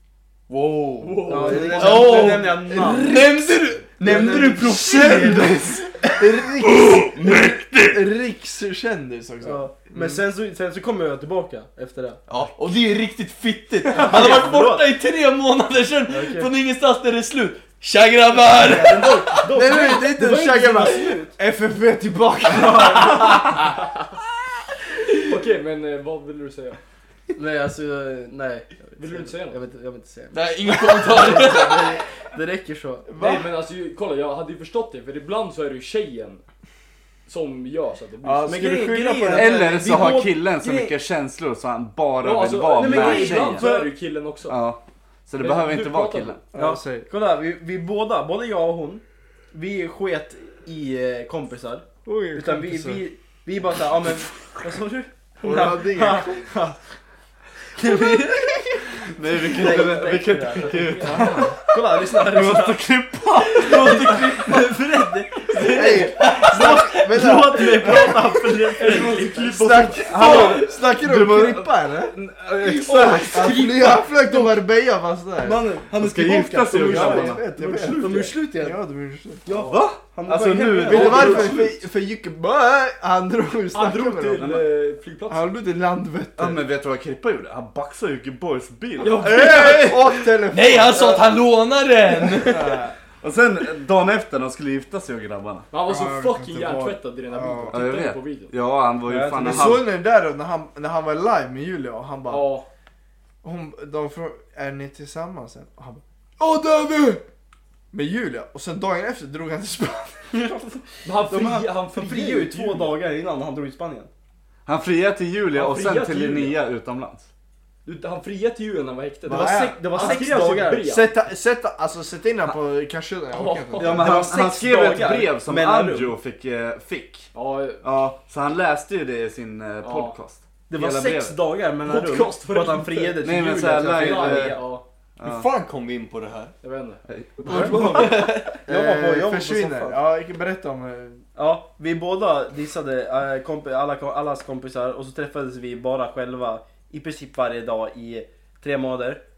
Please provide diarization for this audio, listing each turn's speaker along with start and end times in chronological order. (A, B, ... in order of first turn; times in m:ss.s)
0:00.5-0:08.0 A
0:01.0-0:02.4 B
0:01.2-0:03.4 C
0:01.4-0:02.2 D
0:04.0-0:05.2 C
0:04.1-0:10.2 D
0:04.4-0:06.0 E
0:09.4-0:12.2 C
0:12.3-0:21.2 A
0:13.9-0:14.9 C
0:16.0-0:16.5 C
0:18.6-0:21.3 C
0:18.7-0:19.3 B
0:19.4-0:23.6 D
0:22.7-0:23.4 C
0:25.2-0:26.8 B
0:27.3-0:33.1 C
0:29.0-0:29.6 B
0:30.3-0:32.0 A
0:33.1-0:33.5 D
0:33.2-0:36.4 B
0:37.3-0:38.7 B
0:38.2-0:40.1 D
0:38.5-0:40.9 C
0:39.3-0:43.7 E
0:42.2-0:44.6 B
0:42.7-0:43.9 C
0:44.5-0:46.4 E
0:45.4-0:46.4 B
0:46.5-0:47.1 D
0:46.5-0:56.8 C
0:52.0-0:53.0 D
0:55.4-0:56.5 D
0:57.7-1:02.8 C
0:59.0-1:04.2 E
1:00.5-1:01.3 B
1:01.0-1:01.6 D
1:03.4-1:10.7 C
1:03.6-1:04.7 A
1:05.6-1:12.1 D
1:06.2-1:06.5 A
1:08.8-1:10.6 B
1:10.2-1:13.6 E
1:12.6-1:14.6 C
1:12.9-1:15.6 D
1:15.4-1:18.8 C
1:15.9-1:17.4 E
1:16.7-1:19.4 D
1:17.6-1:18.3 B
1:19.4-1:21.6 C
1:19.6-1:21.7 E
1:20.8-1:24.6 D
1:21.0-1:21.4 B
1:23.7-1:25.6 B
1:25.3-1:26.6 D
1:26.4-1:30.2 E
1:29.0-1:32.8 A
1:29.2-1:31.3 D
1:32.4-1:32.9 D
1:33.2-1:35.7 E
1:35.7-1:38.5 B
1:35.8-1:37.8 D
1:37.7-1:39.9 E
1:39.0-1:39.7 C
1:39.3-1:42.5 D
1:42.3-1:42.7 B
1:43.4-1:47.2 D
1:47.9-1:50.4 D
1:50.3-1:54.1 C
1:51.0-1:52.9 B
1:54.6-1:57.3 E
1:55.5-1:56.6 B
1:57.8-2:01.1 B
1:59.2-2:00.3 D
1:59.3-2:00.9 C
2:00.8-2:04.1 D
2:03.3-2:04.1 B
2:03.8-2:07.3 E
2:03.8-2:06.2 C
2:07.3-2:07.8 B
2:07.8-2:11.4 E
2:09.8-2:10.2 B
2:10.7-2:14.8 C
2:11.8-2:14.8 B
2:13.2-2:14.6 E
2:15.2-2:15.5 E
2:15.2-2:16.5 A
2:16.6-2:17.0 B
2:17.1-2:18.1 E
2:17.5-2:18.4 A
2:17.5-2:20.0 C
2:17.6-2:21.2 D
2:21.4-2:29.2 C